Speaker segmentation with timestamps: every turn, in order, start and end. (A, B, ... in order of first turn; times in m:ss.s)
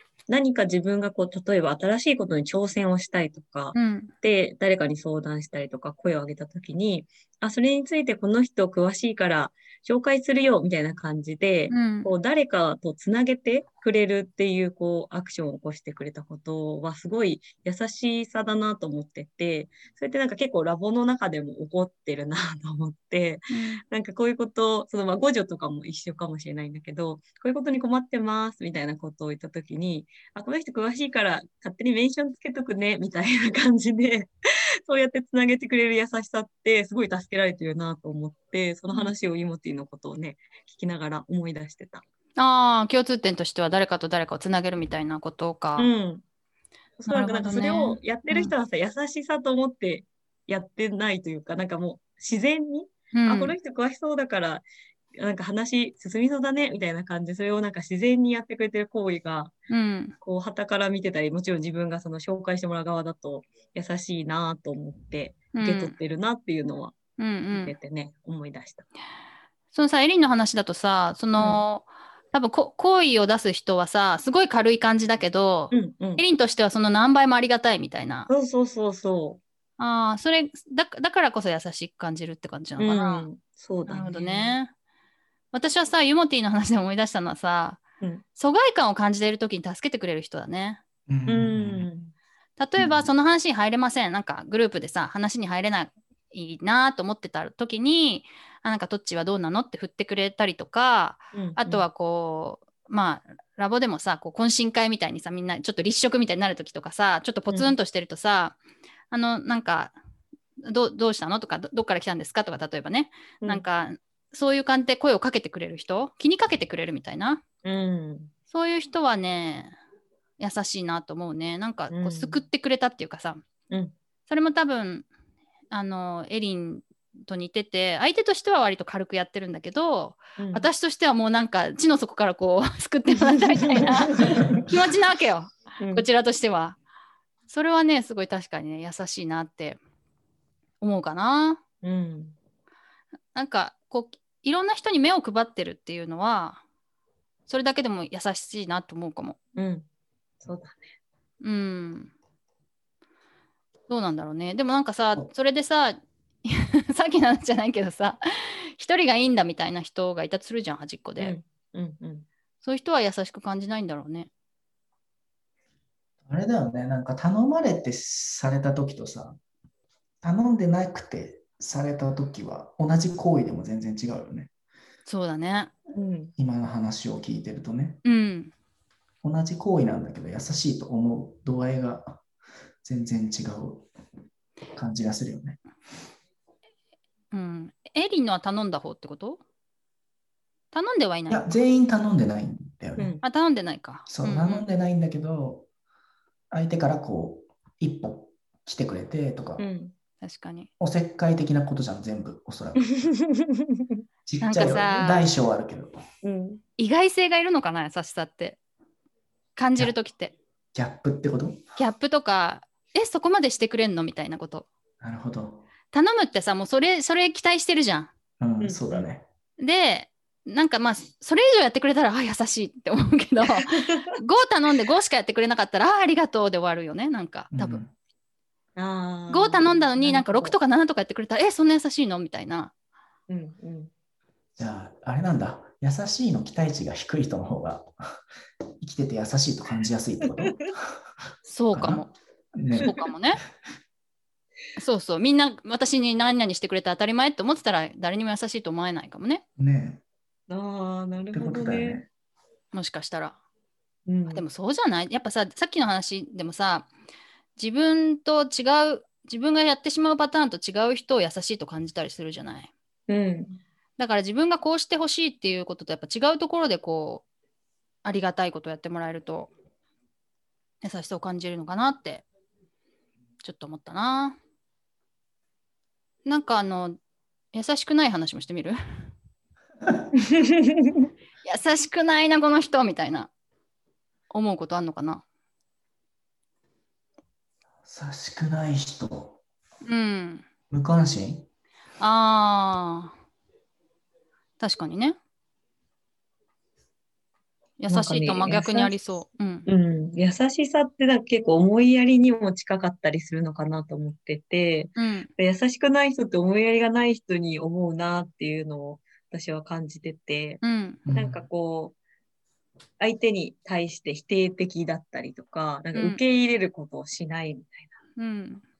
0:00.3-0:34.3 A
0:03.7-0:04.1 B
0:11.7-0:12.1 B
0:23.5-0:23.8 B
0:34.8-0:42.0 A
0:42.4-0:45.9 B
0:45.8-0:46.2 A
0:47.0-0:59.6 A
0:47.1-0:48.5 B
0:53.1-0:53.5 B
0:59.7-1:00.2 B
1:00.2-1:07.0 A
1:05.5-1:06.0 B
1:07.2-1:07.7 B
1:07.5-1:08.9 A
1:09.7-1:18.3 B
1:11.4-1:11.6 A
1:15.7-1:16.2 A
1:18.3-1:19.4 A
1:19.8-1:23.3 B
1:22.8-1:24.6 A
1:23.8-1:24.7 B
1:25.5-1:27.8 B
1:28.3-1:30.8 B
1:31.1-1:31.9 C
1:31.3-1:32.1 A
1:32.6-1:48.6 B
1:32.8-1:33.1 C
1:41.3-1:41.8 A
1:49.1-1:49.9 B
1:50.6-1:57.4 B
1:57.6-1:58.3 A
1:58.5-1:59.8 B
2:00.4-2:03.4 B
2:01.9-2:02.4 A
2:04.3-2:05.1 B
2:05.7-2:16.8 B
2:10.4-2:10.7 A
2:13.1-2:14.6 A
2:15.8-2:16.0 A
2:17.5-2:19.8 B
2:20.8-2:21.6 B
2:21.8-2:22.3 A
2:23.3-2:26.6 B
2:27.5-2:29.4 B
2:29.6-2:29.8 A
2:30.4-2:30.8 A
2:31.4-2:32.1 B
2:33.9-2:41.3 B
2:41.2-2:42.2 A
2:42.6-2:44.3 B
2:46.2-2:49.4 C
2:50.2-2:54.5 C
2:55.0-2:55.7 B
2:55.9-2:56.3 A
2:56.4-2:58.0 C
2:58.0-2:58.5 B
2:59.2-3:02.2 C
3:02.8-3:03.9 C
3:04.7-3:05.6 C
3:07.3-3:09.4 B
3:10.7-3:11.4 B
3:11.3-3:13.1 C
3:13.0-3:13.2 A
3:13.2-3:14.6 B
3:14.1-3:15.6 C
3:16.5-3:19.6 C
3:19.6-3:19.9 A
3:20.2-3:20.7 B
3:20.8-3:23.0 C
3:22.9-3:23.7 A
3:24.2-3:26.0 C
3:24.4-3:25.3 B
3:26.2-3:26.6 A
3:26.8-3:28.6 B
3:29.6-3:30.3 B
3:30.7-3:31.6 C
3:31.8-3:34.7 B
3:35.0-3:35.6 C
3:35.9-3:38.1 B
3:38.4-3:39.2 C
3:38.6-3:39.0 A
3:39.6-3:47.8 B
3:43.6-3:44.0 A
3:47.5-3:47.9 C
3:48.8-3:50.6 A
3:49.3-3:52.7 B
3:53.3-3:53.9 A
3:54.6-3:58.2 C
3:58.8-4:00.9 C
4:00.3-4:00.6 A
4:01.4-4:02.1 B
4:01.7-4:02.9 C
4:02.8-4:03.4 B
4:04.8-4:09.4 B
4:09.6-4:10.0 C
4:10.5-4:12.0 A
4:11.3-4:12.0 C
4:12.7-4:13.4 B
4:14.1-4:14.4 A
4:14.3-4:16.9 B
4:17.6-4:22.7 B
4:23.1-4:23.6 A
4:24.0-4:27.2 B
4:28.0-4:29.5 B
4:30.8-4:32.2 B
4:33.4-4:34.4 B
4:36.2-4:37.0 B
4:37.5-4:38.8 B
4:40.2-4:41.1 A
4:41.4-4:43.3 B
4:44.3-4:45.2 B
4:47.8-4:49.4 C
4:49.8-4:50.4 B
4:50.7-4:51.5 C
4:52.0-4:53.1 B
4:54.6-4:55.2 B
4:57.8-4:59.7 B
4:57.9-4:58.9 A
4:59.6-5:11.9 A
5:05.0-5:05.3 B
5:10.6-5:11.0 B
5:11.1-5:11.4 C
5:13.0-5:17.9 A
5:15.9-5:16.2 B
5:18.2-5:18.6 B